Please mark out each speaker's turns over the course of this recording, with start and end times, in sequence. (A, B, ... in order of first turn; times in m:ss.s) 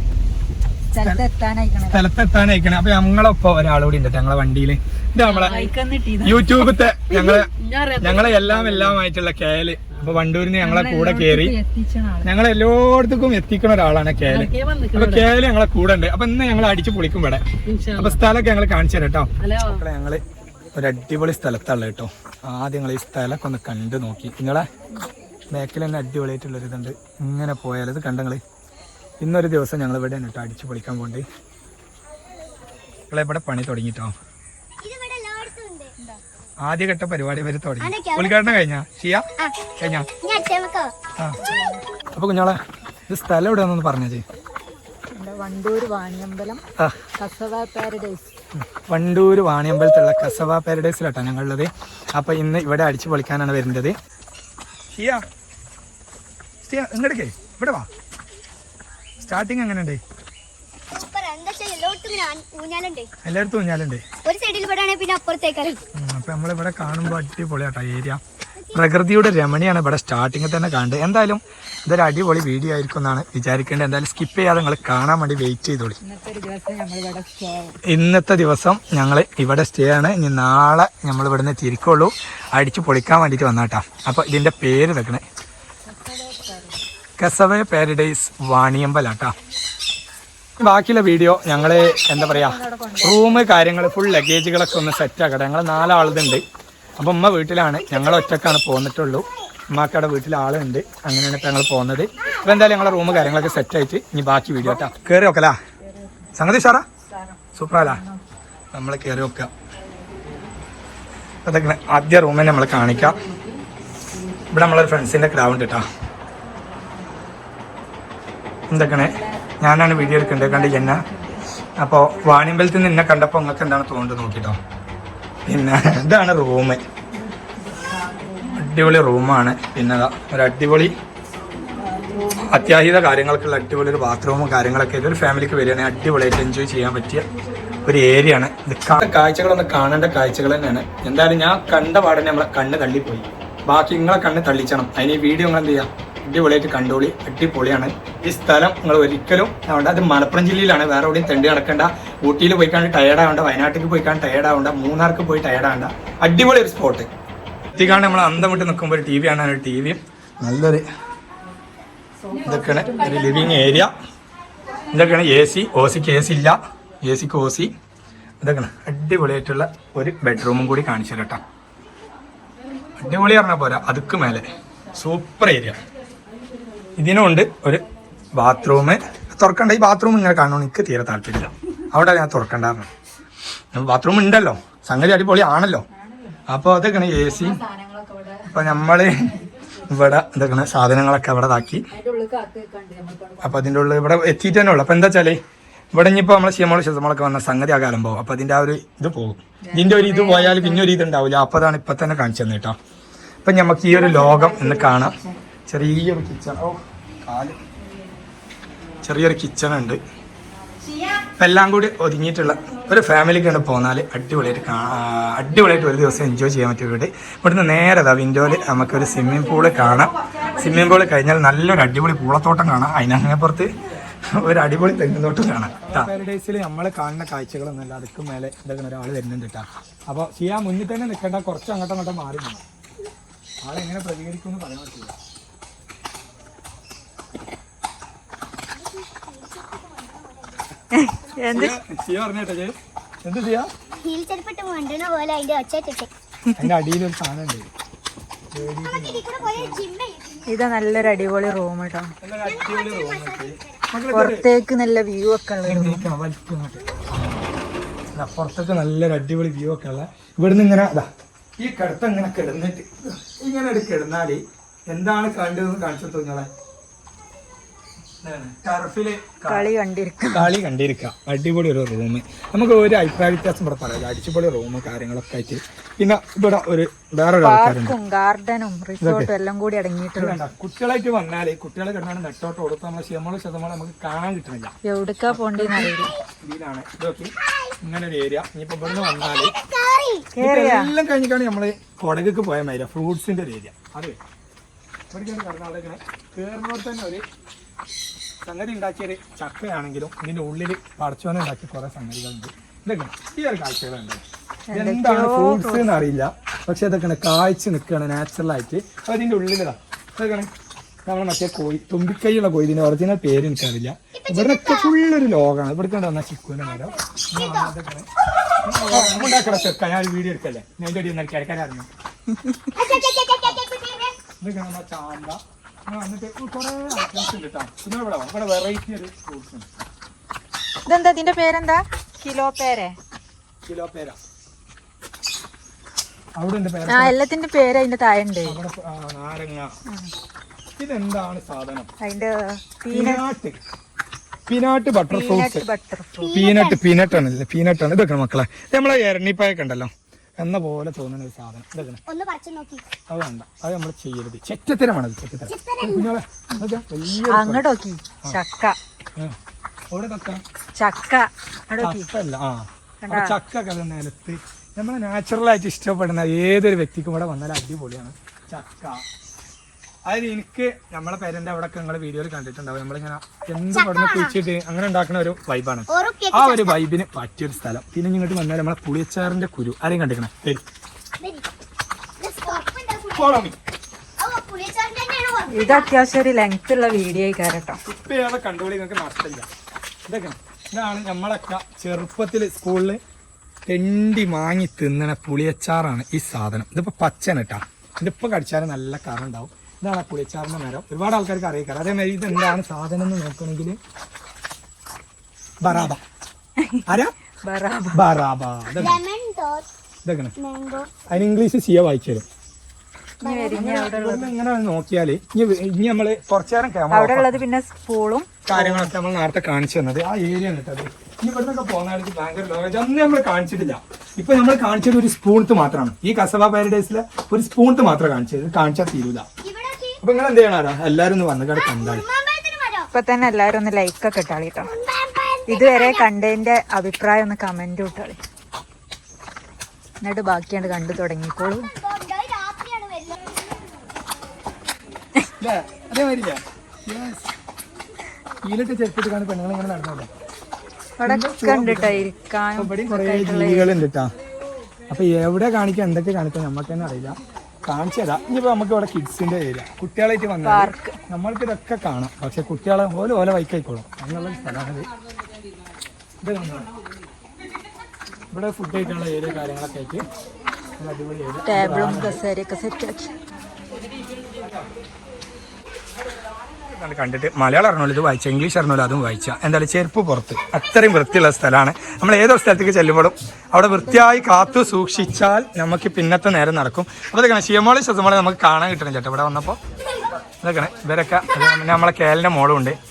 0:00.9-0:02.0 A
0:01.9-0:05.7 B
0:05.2-0:08.9 A
0:06.2-0:11.5 B
0:10.6-0:12.3 A
0:12.2-0:17.4 B
0:14.3-0:15.2 A
0:17.7-0:18.2 A
0:18.0-0:20.2 B
0:19.4-0:19.8 A
0:20.7-0:24.6 B
0:25.5-0:28.4 B
0:29.2-0:31.2 B
0:33.1-0:34.1 B
0:34.8-0:35.9 C
0:36.6-0:39.2 B
0:37.8-0:38.5 C
0:39.8-0:40.1 B
0:40.2-0:40.9 C
0:41.4-0:41.8 A
0:42.1-0:44.2 B
0:45.1-0:46.6 A
0:47.2-0:48.3 A
0:48.5-0:54.0 B
0:54.9-0:55.2 B
0:56.6-0:57.9 B
0:59.2-1:00.0 B
1:00.9-1:03.1 C
1:03.2-1:04.0 B
1:04.2-1:05.8 C
1:05.9-1:08.2 B
1:08.6-1:08.9 C
1:08.7-1:16.0 B
1:16.0-1:17.8 A
1:17.9-1:25.2 B
1:25.9-1:26.8 A
1:27.2-1:29.3 B
1:30.6-1:36.4 B
1:31.9-1:33.4 A
1:37.0-1:45.6 B
1:42.4-1:43.4 C
1:45.9-1:46.3 A
1:46.4-1:46.8 B
1:47.1-1:48.2 A
1:47.6-1:48.0 B
1:48.7-1:49.5 B
1:51.4-1:53.2 B
1:54.5-1:55.8 B
1:58.7-2:01.0 B
1:58.7-2:01.4 A
2:01.8-2:04.6 B
2:05.4-2:06.8 B
2:07.7-2:08.6 A
2:08.6-2:10.9 B
2:11.8-2:12.7 A
2:12.4-2:17.3 B
2:17.8-2:37.1 B
2:37.8-2:40.8 B
2:42.2-2:43.8 A
2:42.4-2:43.9 B
2:44.9-2:47.7 B
2:48.4-2:51.4 B
2:53.0-2:55.8 B
2:57.0-2:57.8 B
2:58.3-3:02.9 B
3:03.7-3:05.8 B
3:06.0-3:06.3 A
3:06.5-3:07.6 B
3:07.2-3:08.6 A
3:08.5-3:09.1 B
3:09.9-3:11.8 B
3:11.9-3:13.7 A
3:13.4-3:15.4 B
3:15.9-3:22.8 B
3:19.6-3:21.0 A
3:23.4-3:25.1 B
3:23.9-3:25.3 A
3:25.7-3:27.6 B
3:29.0-3:30.0 B
3:31.4-3:43.7 B
3:44.3-3:52.6 B
3:53.6-3:55.1 B
3:59.6-4:00.2 C
4:00.9-4:01.7 A
4:01.5-4:03.7 B
4:04.0-4:06.1 C
4:06.6-4:07.7 B
4:08.5-4:09.8 B
4:08.8-4:10.5 C
4:10.5-4:12.1 A
4:12.2-4:14.4 B
4:12.4-4:13.8 C
4:14.1-4:16.1 A
4:15.6-4:17.4 B
4:18.1-4:26.5 B
4:28.2-4:29.7 B
4:29.5-4:30.5 A
4:30.3-4:38.0 B
4:37.4-4:40.4 A
4:39.0-4:39.3 B
4:40.2-4:44.7 B
4:44.8-4:46.1 A
4:45.3-4:49.5 B
4:47.5-4:47.7 C
4:48.9-4:50.2 C
4:50.3-4:50.9 A
4:50.4-4:54.2 B
4:55.1-4:57.2 B
4:58.4-5:10.5 B
5:04.7-5:05.9 A
5:11.0-5:18.1 B
5:14.2-5:14.9 C
5:16.9-5:17.7 C
5:18.7-5:19.3 A
5:18.8-5:21.9 B
5:22.7-5:24.2 C
5:24.4-5:29.7 B
5:30.8-5:33.0 A
5:33.6-5:34.2 B
5:36.4-5:37.1 B
5:36.9-5:38.6 A
5:38.4-5:39.7 B
5:40.8-5:41.9 B
5:42.0-5:43.2 A
5:42.9-5:43.6 B
5:44.5-5:45.6 B
5:45.1-5:46.3 A
5:46.2-5:46.9 C
5:46.3-5:52.0 B
5:52.1-5:52.8 C
5:53.1-5:57.6 B
5:55.5-5:56.1 C
5:57.3-5:58.8 A
5:59.9-6:00.4 B
6:00.8-6:02.1 A
6:01.8-6:09.0 B
6:03.0-6:03.3 A
6:10.0-6:20.6 B
6:13.7-6:14.3 C
6:15.9-6:16.8 C
6:21.2-6:21.4 C
6:22.2-6:23.5 C
6:23.1-6:23.5 B
6:24.2-6:25.9 C
6:25.5-6:27.8 A
6:27.8-6:29.5 B
6:30.1-6:33.0 B
6:33.7-6:43.8 B
6:45.6-6:46.0 B
6:46.9-6:47.1 B
6:47.4-6:48.0 A
6:47.9-6:49.0 B
6:48.8-6:49.7 C
6:50.0-6:50.3 B
6:50.4-6:50.9 C
6:51.1-6:52.2 B
6:53.2-6:54.3 A
6:53.2-6:53.7 C
6:53.5-6:57.4 B
6:56.9-6:58.9 A
6:58.4-7:09.3 B
7:09.4-7:10.0 C
7:10.0-7:12.0 B
7:11.5-7:12.9 C
7:12.9-7:14.7 A
7:14.6-7:16.1 C
7:15.5-7:18.2 A
7:20.0-7:21.7 A
7:21.5-7:23.3 C
7:25.4-7:27.3 B
7:28.4-7:30.1 B
7:31.0-7:33.7 A
7:31.0-7:32.0 B
7:32.6-7:34.1 B
7:34.9-7:44.9 B
7:40.4-7:41.0 A
7:46.2-7:46.7 B
7:48.3-7:50.0 B
7:50.8-7:52.1 B
7:51.4-7:53.1 A
7:56.7-8:09.6 B
8:03.9-8:04.6 A
8:10.4-8:12.8 B